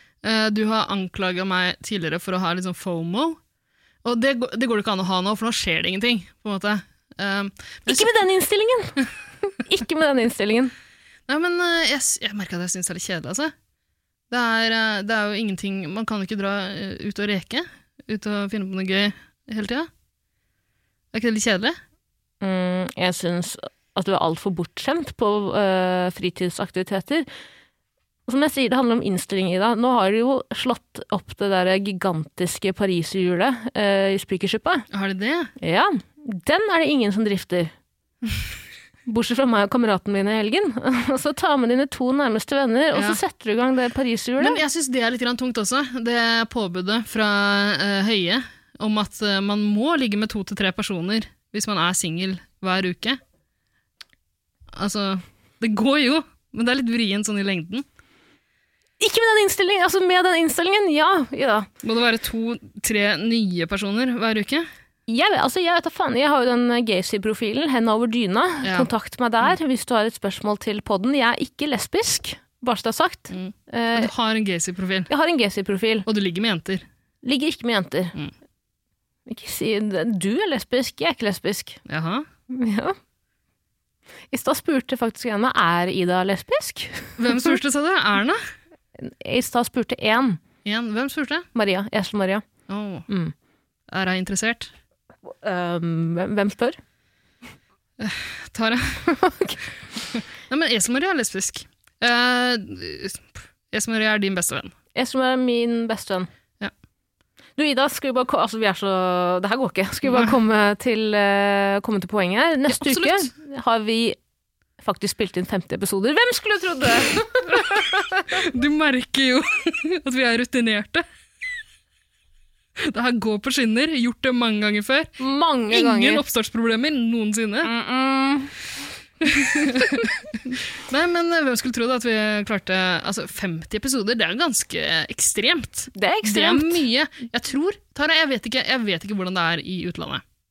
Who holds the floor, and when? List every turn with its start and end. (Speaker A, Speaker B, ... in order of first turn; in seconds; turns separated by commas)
Speaker A: 0.2-3.4, Speaker A: 4.0-8.1, Speaker B: 7.9-10.7, Speaker A: 11.3-13.5, Speaker A: 14.3-19.9, Speaker A: 21.1-21.8, Speaker B: 22.4-27.3, Speaker B: 28.3-34.8, Speaker A: 34.9-35.5, Speaker B: 35.6-37.7, Speaker B: 39.0-44.6, Speaker A: 42.9-43.2, Speaker A: 44.4-53.2, Speaker A: 54.7-57.8, Speaker B: 59.0-61.7, Speaker A: 61.8-64.7, Speaker B: 65.1-74.1, Speaker A: 68.6-68.9, Speaker A: 73.3-75.1, Speaker B: 75.1-76.1, Speaker A: 76.0-76.8, Speaker B: 77.2-78.1, Speaker B: 79.3-81.8, Speaker A: 81.8-82.2, Speaker B: 82.5-83.0, Speaker B: 84.3-87.4, Speaker A: 87.2-88.4, Speaker B: 89.0-90.4, Speaker A: 90.6-91.5, Speaker B: 91.5-92.4, Speaker A: 92.7-93.1, Speaker B: 93.1-93.3, Speaker A: 93.9-94.7, Speaker B: 95.2-96.8, Speaker A: 98.0-99.1, Speaker B: 99.0-99.6, Speaker A: 100.1-104.7, Speaker B: 104.9-106.3, Speaker B: 107.5-114.2, Speaker A: 110.1-110.3, Speaker A: 112.7-113.3, Speaker B: 114.8-117.9, Speaker A: 117.5-121.0, Speaker A: 122.8-127.7, Speaker B: 125.2-126.2, Speaker B: 127.6-128.6, Speaker A: 129.2-140.2, Speaker B: 129.6-130.0, Speaker B: 135.9-136.8